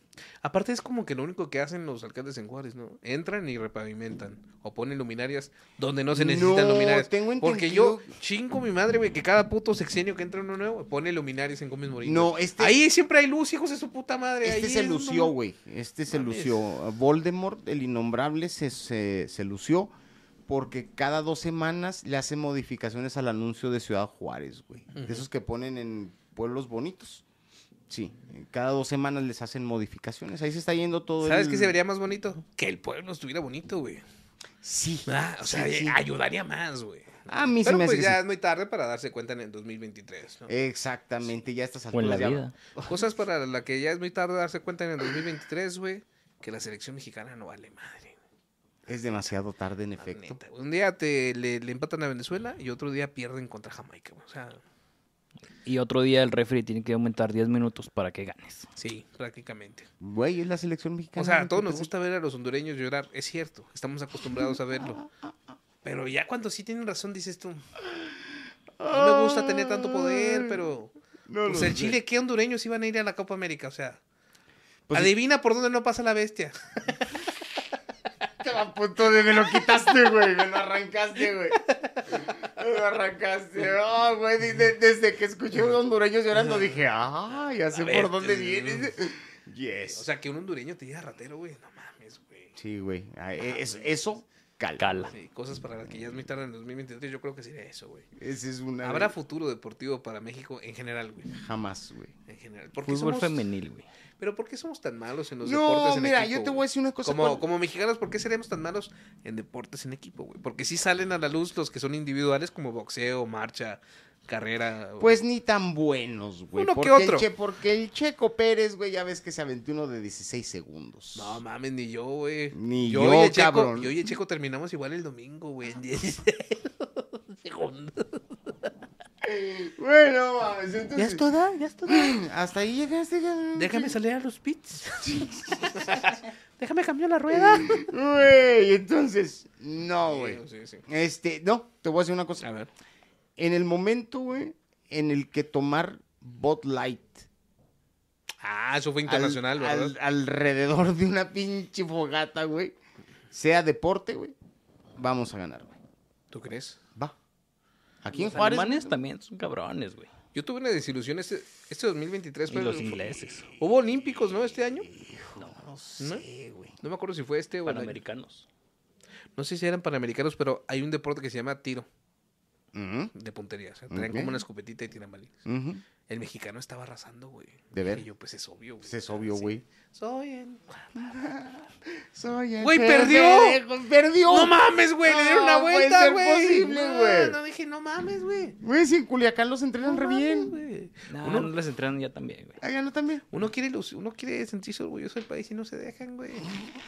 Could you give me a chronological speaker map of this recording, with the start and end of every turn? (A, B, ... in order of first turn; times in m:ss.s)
0:00.4-0:15.4 A
0:06.1-0:08.1 B
0:12.0-0:12.8 B
0:14.4-0:19.9 B
0:16.1-0:16.6 A
0:20.5-0:27.2 B
0:24.9-0:25.2 A
0:27.9-0:31.8 B
0:31.2-0:34.0 A
0:34.6-0:36.0 B
0:35.0-0:40.5 A
0:37.3-0:38.2 B
0:40.5-0:43.0 B
0:41.9-0:42.5 C
0:42.8-0:48.2 A
0:48.9-0:50.4 B
0:50.0-0:54.6 A
0:55.6-0:58.7 C
0:58.8-0:59.9 A
1:00.0-1:01.9 B
1:01.2-1:05.0 A
1:04.3-1:05.4 B
1:05.8-1:07.6 A
1:07.8-1:10.7 B
1:08.9-1:10.9 A
1:11.3-1:12.0 B
1:11.4-1:14.0 A
1:14.9-1:15.1 B
1:14.9-1:17.2 A
1:18.4-1:30.0 B
1:21.5-1:22.0 A
1:27.6-1:28.9 A
1:29.9-1:32.6 A
1:32.6-1:35.1 B
1:33.5-1:33.9 A
1:34.8-1:35.1 C
1:35.1-1:38.0 A
1:38.2-1:39.1 B
1:38.8-1:41.3 A
1:41.3-1:42.1 B
1:42.3-1:43.4 A
1:42.8-1:43.9 C
1:44.2-1:55.1 A
1:45.4-1:47.4 B
1:55.0-2:01.4 B
1:56.6-1:57.3 A
2:01.1-2:08.2 A
2:02.5-2:03.9 B
2:09.2-2:11.3 B
2:11.0-2:12.2 A
2:11.9-2:14.0 B
2:13.5-2:17.9 A
2:15.0-2:15.9 B
2:17.3-2:22.4 B
2:20.0-2:20.8 A
2:22.4-2:22.7 A
2:23.4-2:27.2 B
2:28.4-2:30.0 A
2:29.0-2:32.8 B
2:33.3-2:34.4 B
2:35.0-2:35.7 B
2:36.3-2:36.8 A
2:38.0-2:39.0 B
2:38.1-2:40.1 C
2:40.3-2:43.0 A
2:42.5-2:43.5 C
2:43.6-2:44.9 A
2:44.9-2:46.8 B
2:46.0-2:46.2 A
2:46.8-2:48.0 A
2:47.6-2:48.4 C
2:49.4-2:51.9 A
2:52.7-2:53.1 B
2:53.1-2:55.3 A
2:53.9-2:54.4 B
2:55.4-2:55.8 B
2:56.1-3:01.2 A
2:57.7-2:58.1 B
2:58.8-2:59.6 B
3:00.9-3:07.4 B
3:02.6-3:03.6 A
3:04.2-3:08.6 A
3:08.6-3:10.5 B
3:09.9-3:11.5 A
3:11.1-3:12.6 C
3:12.6-3:13.2 B
3:13.3-3:16.5 A